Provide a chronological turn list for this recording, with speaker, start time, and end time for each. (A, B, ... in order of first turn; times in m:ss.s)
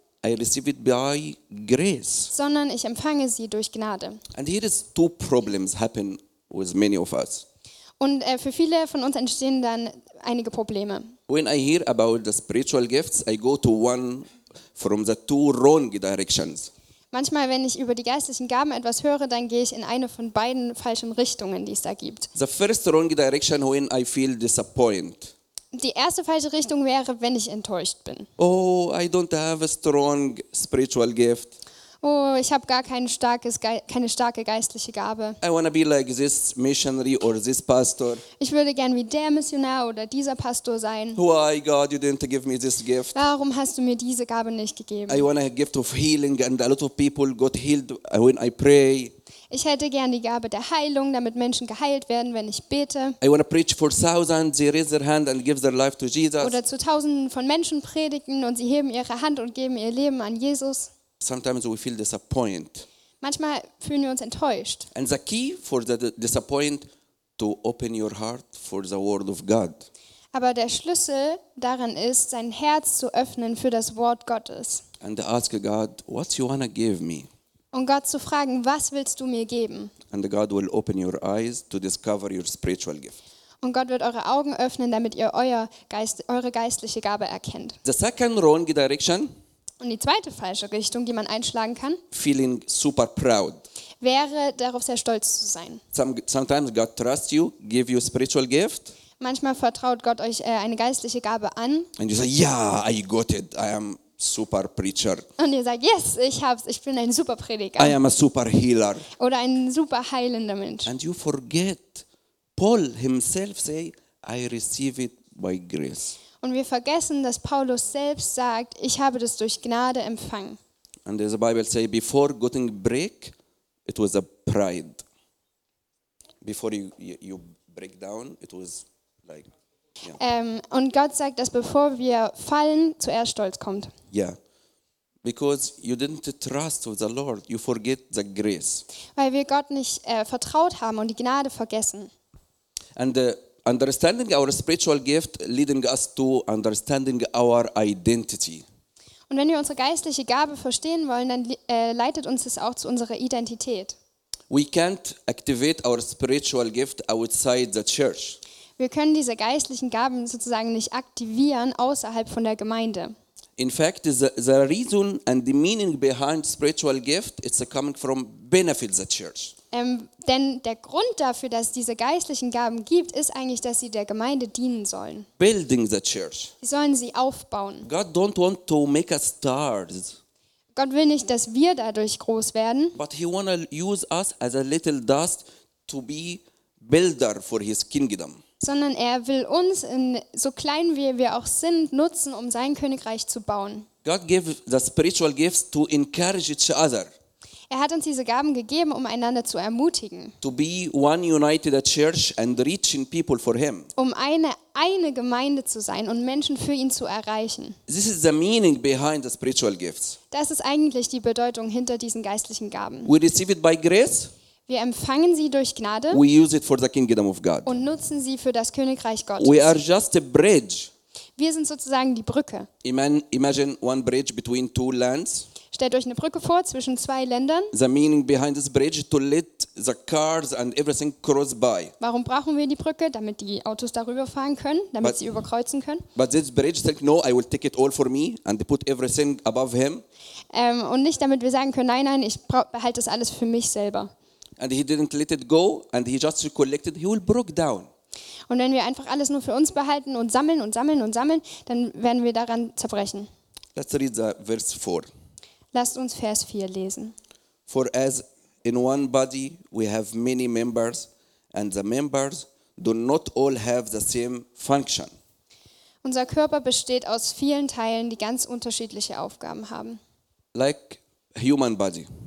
0:00.2-0:02.3 A
0:02.3-0:04.2 B
0:04.3-0:07.5 A
0:08.0-0:11.2 B
0:11.3-0:16.7 A
0:17.1-0:22.3 B
0:22.4-0:25.3 A
0:25.7-0:28.3 B
0:28.4-0:31.5 A
0:32.0-0:35.4 B
0:35.4-0:38.2 A
0:38.4-0:41.2 B
0:41.2-0:43.2 A
0:43.1-0:45.3 B
0:45.1-0:49.1 A
0:49.5-0:53.2 B
0:53.2-0:56.6 A
0:56.4-1:00.9 B
1:01.2-1:02.9 A
1:03.2-1:04.9 B
1:04.9-1:06.9 A
1:07.4-1:09.9 A
1:10.3-1:14.8 B
1:15.0-1:17.3 A
1:17.7-1:19.9 B
1:20.1-1:23.2 A
1:23.6-1:27.8 B
1:27.8-1:29.3 A
1:29.8-1:32.0 B
1:32.1-1:33.6 A
1:34.0-1:35.8 B
1:35.9-1:38.9 A
1:39.2-1:41.9 B
1:42.0-1:45.3 A
1:45.4-1:48.0 B
1:47.8-1:49.1 A
1:49.2-1:50.9 B
1:50.9-1:52.1 A
1:52.6-1:56.2 A
1:56.4-2:00.6 B
2:01.0-2:03.4 A
2:03.9-2:05.0 A
2:06.4-2:09.5 A
2:10.2-2:13.9 B
2:14.1-2:14.4 A
2:15.2-2:18.8 A
2:19.2-2:22.1 B
2:23.0-2:28.6 A
2:29.3-2:34.0 B
2:34.5-2:38.4 A
2:38.8-2:43.1 B
2:43.6-2:49.5 A
2:49.7-2:55.3 B
2:55.4-2:56.5 A
2:56.6-2:57.9 B
2:57.8-3:00.2 A
3:00.8-3:03.0 B
3:03.0-3:08.4 A
3:08.6-3:13.9 B
3:14.0-3:17.1 A
3:17.7-3:20.4 B
3:20.4-3:23.9 A
3:24.0-3:27.8 B
3:27.9-3:30.2 A
3:30.3-3:33.1 B
3:33.1-3:34.3 A
3:34.7-3:36.2 B
3:36.1-3:37.8 A
3:37.7-3:39.8 B
3:39.4-3:40.9 A
3:41.4-3:42.7 B
3:42.8-3:45.5 A
3:45.7-3:47.7 B
3:47.7-3:51.9 A
3:52.0-3:56.1 B
3:55.0-3:55.3 A
3:56.2-4:00.0 A
4:00.5-4:04.1 B
4:04.6-4:07.9 A
4:08.5-4:13.3 B
4:13.8-4:15.1 A
4:15.7-4:17.2 B
4:17.7-4:25.1 A
4:26.0-4:30.0 B
4:30.5-4:32.1 A